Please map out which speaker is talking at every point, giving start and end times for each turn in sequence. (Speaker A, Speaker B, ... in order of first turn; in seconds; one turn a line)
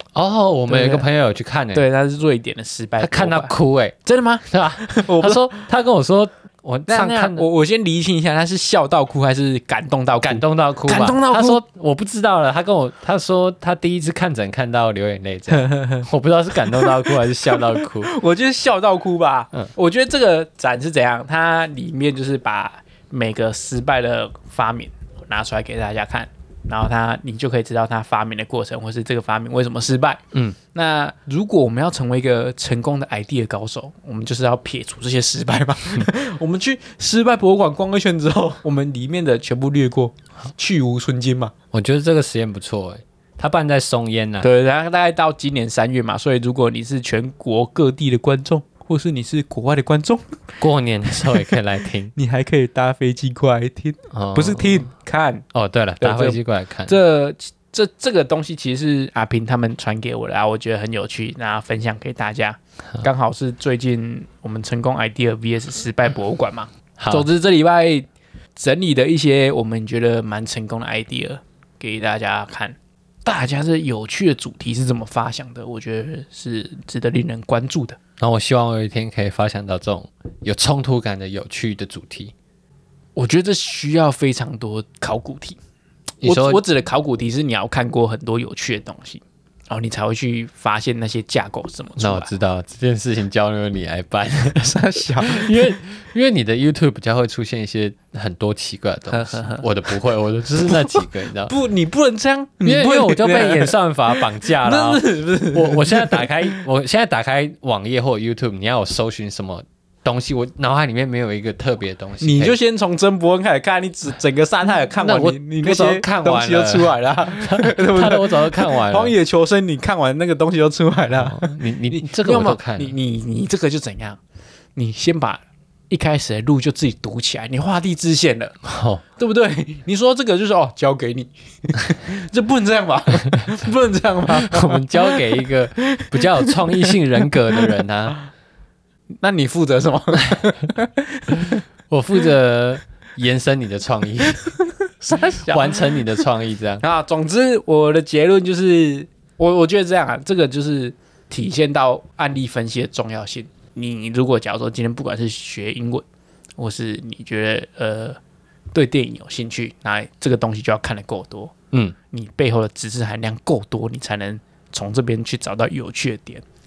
Speaker A: 0.1-1.8
Speaker B: 0.7-1.1
Speaker B: 1.7-5.5
Speaker A: 3.0-4.0
Speaker A: 4.5-7.5
Speaker B: 6.9-11.6
Speaker A: 10.2-18.1
Speaker B: 15.5-16.1
Speaker B: 16.6-30.2
Speaker B: 30.7-41.5
Speaker A: 41.7-44.5
Speaker B: 44.4-50.4
Speaker A: 50.6-52.1
Speaker B: 51.1-51.5
Speaker B: 52.1-55.5
Speaker A: 54.1-54.9
Speaker A: 55.5-57.0
Speaker B: 56.0-78.0
Speaker A: 67.0-67.3
Speaker A: 78.2-82.3
Speaker B: 83.2-85.6
Speaker A: 86.2-86.6
Speaker B: 86.2-92.3
Speaker A: 92.0-101.5
Speaker B: 94.5-95.7
Speaker B: 99.1-99.7
Speaker B: 100.7-106.6
Speaker A: 102.6-112.5
Speaker B: 112.2-124.2
Speaker A: 115.0-119.1
Speaker A: 121.2-122.9
Speaker B: 124.8-128.6
Speaker A: 128.6-129.0
Speaker B: 129.2-137.0
Speaker A: 134.3-138.2
Speaker B: 139.2-141.6
Speaker A: 141.9-144.4
Speaker B: 144.4-146.0
Speaker A: 145.4-146.8
Speaker B: 146.8-156.0
Speaker B: 156.6-158.2
Speaker B: 158.7-161.5
Speaker B: 162.1-166.4